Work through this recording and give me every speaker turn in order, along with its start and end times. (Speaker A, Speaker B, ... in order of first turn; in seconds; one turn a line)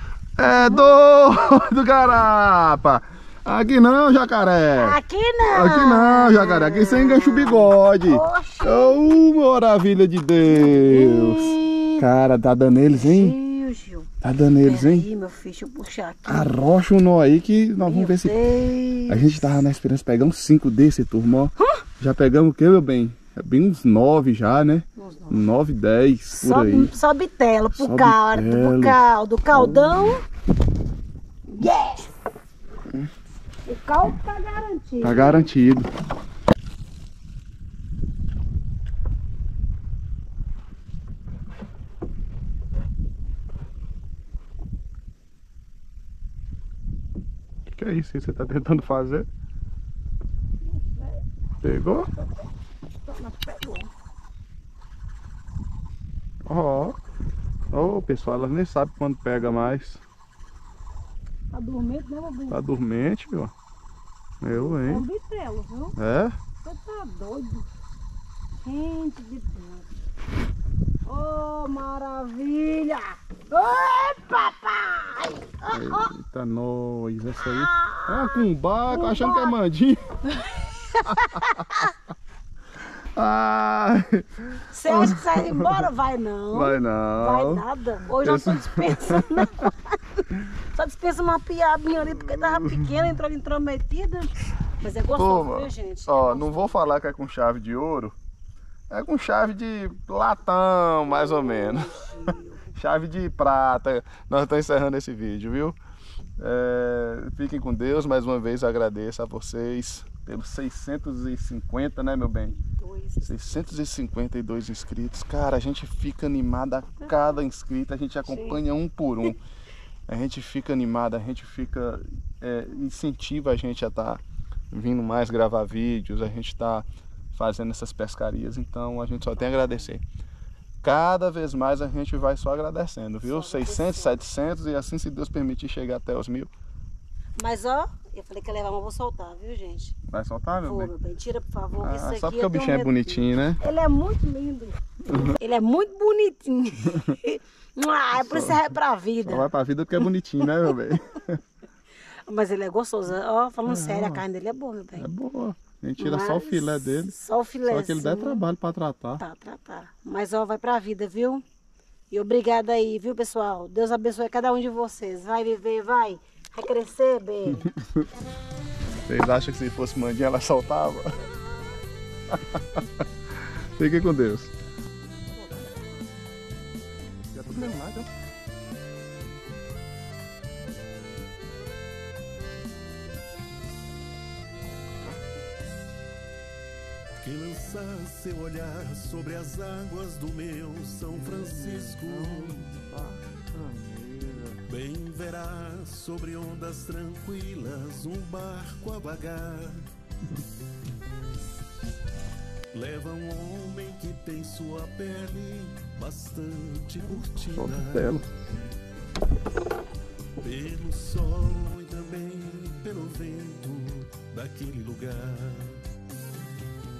Speaker A: 0.4-13.4
Speaker B: 0.4-1.0
Speaker B: 4.7-9.2
Speaker B: 10.4-12.1
Speaker B: 12.9-14.1
Speaker A: 14.2-15.1
Speaker B: 14.6-16.5
Speaker A: 16.3-18.4
Speaker B: 17.8-19.6
Speaker A: 19.1-26.9
Speaker B: 25.0-25.5
Speaker B: 26.3-30.2
Speaker A: 27.8-29.0
Speaker A: 29.5-30.1
Speaker B: 31.5-32.2
Speaker B: 33.7-35.5
Speaker A: 35.0-35.9
Speaker A: 47.7-49.3
Speaker B: 50.6-51.2
Speaker A: 51.6-52.1
Speaker B: 52.1-53.9
Speaker A: 56.5-57.0
Speaker A: 57.7-60.0
Speaker B: 61.5-62.6
Speaker A: 62.5-63.5
Speaker A: 64.4-65.1
Speaker B: 64.5-66.0
Speaker A: 66.0-66.4
Speaker B: 66.6-67.7
Speaker B: 68.6-69.9
Speaker B: 71.1-76.1
Speaker A: 75.7-80.1
Speaker B: 77.4-79.6
Speaker B: 80.2-81.9
Speaker A: 81.1-81.6
Speaker A: 83.2-85.8
Speaker B: 84.7-96.8
Speaker A: 86.5-89.7
Speaker A: 92.0-92.9
Speaker A: 95.1-98.2
Speaker A: 98.9-105.8
Speaker B: 101.1-102.7
Speaker A: 106.4-112.6
Speaker B: 112.7-113.6
Speaker A: 113.2-119.4
Speaker B: 117.0-117.4
Speaker B: 118.2-118.6
Speaker A: 120.1-130.0
Speaker B: 129.3-129.9
Speaker A: 130.8-136.5
Speaker B: 133.2-134.2
Speaker B: 137.4-140.0
Speaker A: 140.1-140.9
Speaker B: 140.6-149.5
Speaker A: 141.8-143.6
Speaker A: 145.1-145.3
Speaker A: 148.2-148.6
Speaker A: 149.2-151.4
Speaker B: 150.0-150.7
Speaker B: 152.3-155.1
Speaker A: 153.7-154.2
Speaker A: 155.0-157.2
Speaker B: 156.0-158.4
Speaker A: 157.7-159.2
Speaker B: 159.2-161.4
Speaker B: 162.1-167.7
Speaker A: 167.5-168.1
Speaker A: 169.1-171.2
Speaker A: 172.3-172.8
Speaker A: 173.8-174.5
Speaker A: 177.3-178.1
Speaker C: 187.2-192.7
Speaker A: 191.2-194.6
Speaker C: 194.7-199.9
Speaker C: 202.7-208.2
Speaker A: 207.4-208.2
Speaker C: 210.4-215.8